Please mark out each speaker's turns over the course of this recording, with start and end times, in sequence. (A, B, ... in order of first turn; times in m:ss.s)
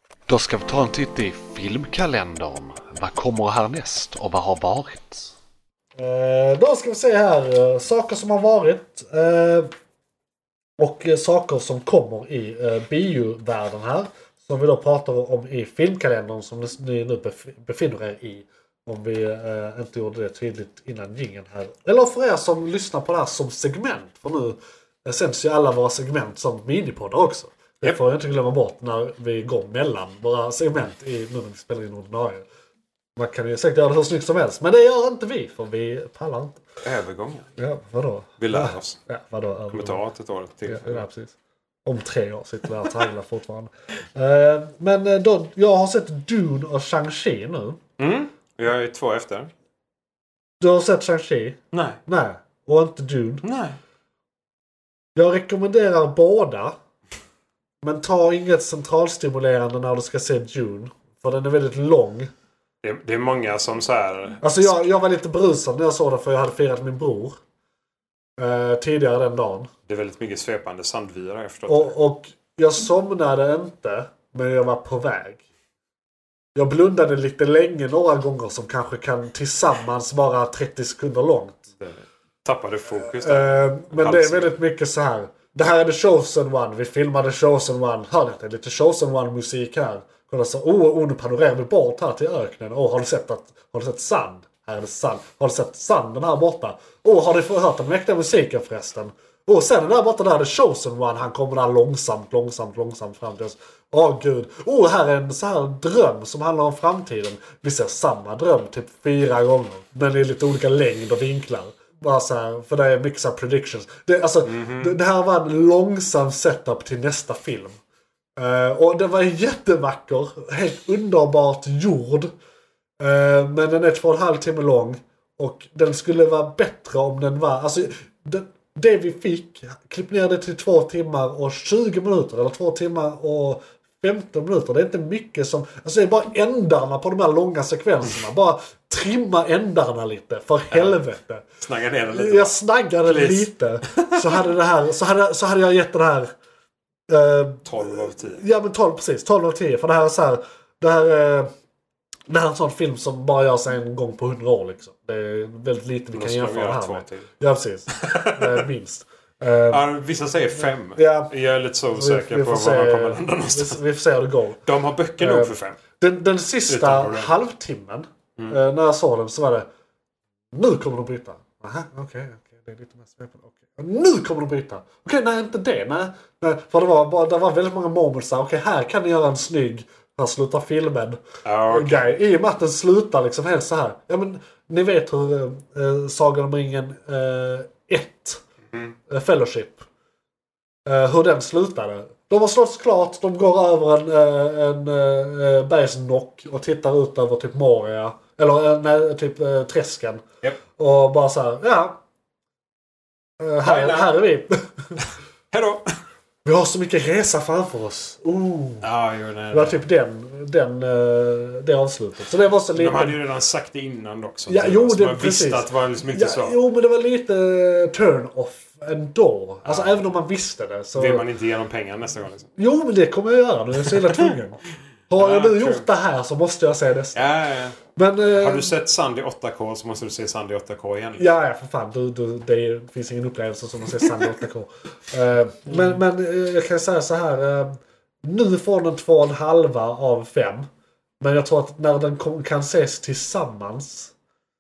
0:00.3-0:05.3 A
0:06.0-0:09.7 B
0:10.8-0:32.5 B
0:33.2-0:36.6 B
0:36.8-0:37.5 C
0:37.6-0:40.0 B
0:38.4-0:39.0 C
0:39.7-0:41.0 C
0:40.7-0:41.3 B
0:41.9-0:47.8 B
0:48.0-0:49.5 C
0:50.6-0:53.4 B
0:51.7-0:52.0 C
0:53.4-0:53.8 C
0:55.2-0:56.8 B
0:57.8-1:02.3 B
1:02.8-1:04.8 C
1:04.4-1:07.4 B
1:08.4-1:09.7 B
1:09.9-1:11.9 C
1:11.7-1:15.4 B
1:16.6-1:21.7 B
1:21.8-1:24.6 C
1:23.1-1:57.8 B
1:54.4-1:55.0 C
1:58.4-2:02.3 B
2:03.0-2:21.5 B
2:20.7-2:21.0 C
2:21.6-2:22.5 C
2:22.1-2:26.3 B
2:23.0-2:24.4 C
2:27.1-2:31.5 B
2:27.6-2:28.4 C
2:32.3-2:39.8 B
2:36.1-2:37.3 C
2:37.9-2:38.6 C
2:39.7-2:43.8 C
2:40.9-2:41.3 B
2:41.9-2:44.6 B
2:44.6-2:45.8 C
2:45.2-2:49.7 B
2:46.7-2:47.4 C
2:50.5-3:08.4 B
3:01.4-3:02.1 C
3:09.1-3:09.9 B
3:10.9-3:20.2 B
3:20.8-3:22.0 B
3:23.4-3:25.1 B
3:23.6-3:24.2 C
3:25.5-3:25.8 C
3:26.4-3:28.9 B
3:28.8-3:29.8 C
3:29.5-3:33.2 B
3:32.7-3:36.6 C
3:34.5-3:41.3 B
3:39.6-3:40.1 C
3:41.0-3:42.5 C
3:42.6-3:47.3 B
3:43.8-3:44.3 C
3:45.2-3:45.9 C
3:47.1-3:47.8 C
3:48.0-3:48.7 B
3:48.4-3:51.3 C
3:51.2-4:00.7 B
3:54.0-3:54.3 C
3:55.7-3:56.0 C
4:01.2-4:04.1 B